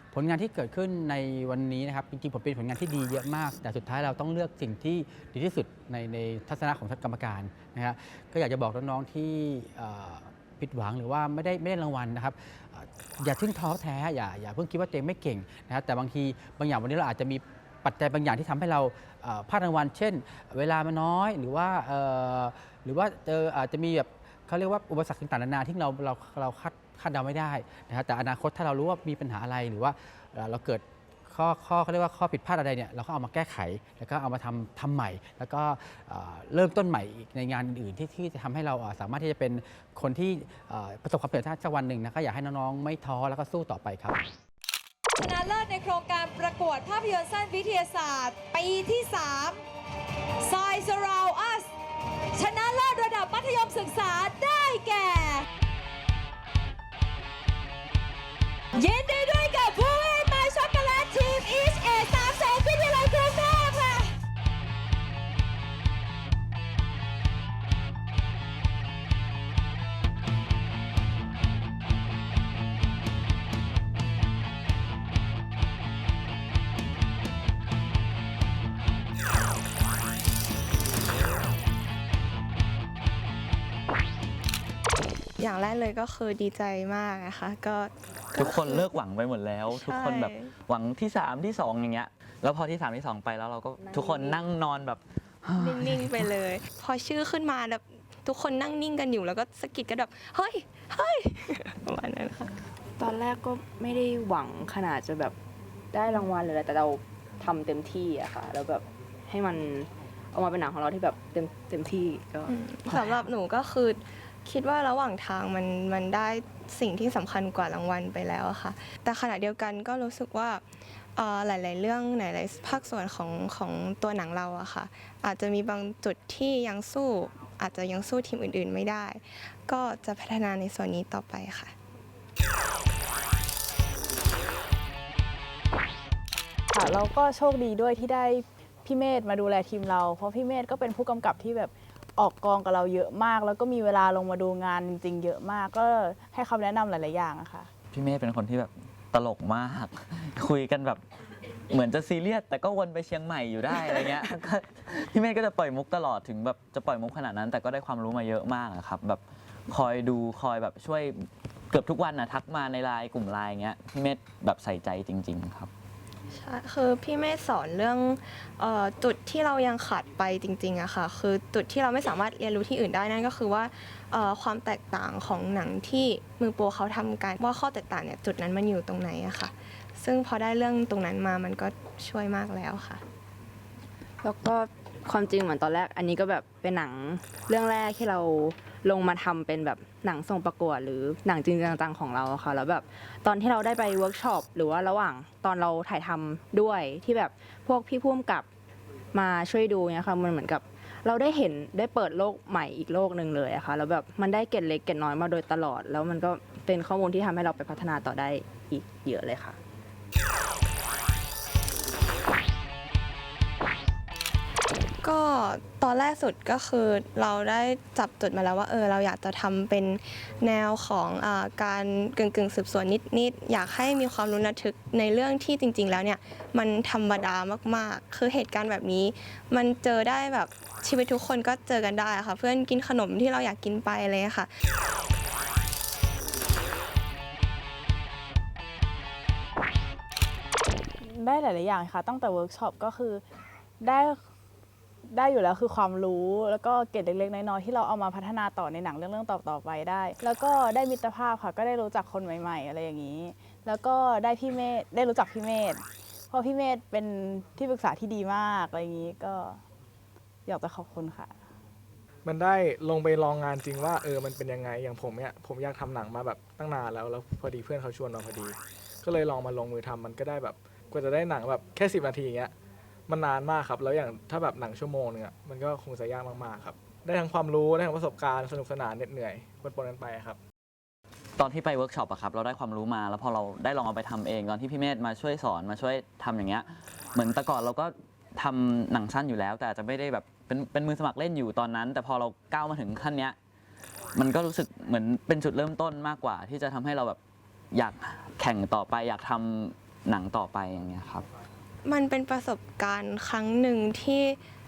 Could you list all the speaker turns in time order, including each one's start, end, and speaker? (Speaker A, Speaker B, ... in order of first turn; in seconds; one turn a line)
Speaker A: 0.1-44.1
Speaker B: 45.2-49.6
Speaker B: 50.4-51.7
Speaker B: 52.3-55.5
Speaker B: 58.7-64.1
Speaker C: 85.4-88.9
Speaker D: 88.3-96.3
Speaker C: 89.7-90.5
Speaker E: 93.8-94.4
Speaker C: 95.6-102.5
Speaker E: 103.0-105.4
Speaker E: 105.9-113.3
Speaker C: 112.5-131.7
Speaker F: 136.7-147.7
Speaker D: 147.9-151.0
Speaker D: 151.7-165.7
Speaker C: 166.3-183.0
Speaker E: 184.2-198.5
Speaker E: 199.1-209.6
Speaker C: 215.0-234.5
Speaker F: 241.0-243.2
Speaker F: 243.8-244.2
Speaker F: 245.1-259.6
Speaker F: 260.5-261.3
Speaker G: 262.2-272.5
Speaker G: 273.1-280.4
Speaker D: 281.4-293.4
Speaker D: 294.1-297.2
Speaker D: 297.7-301.3
Speaker C: 301.8-304.4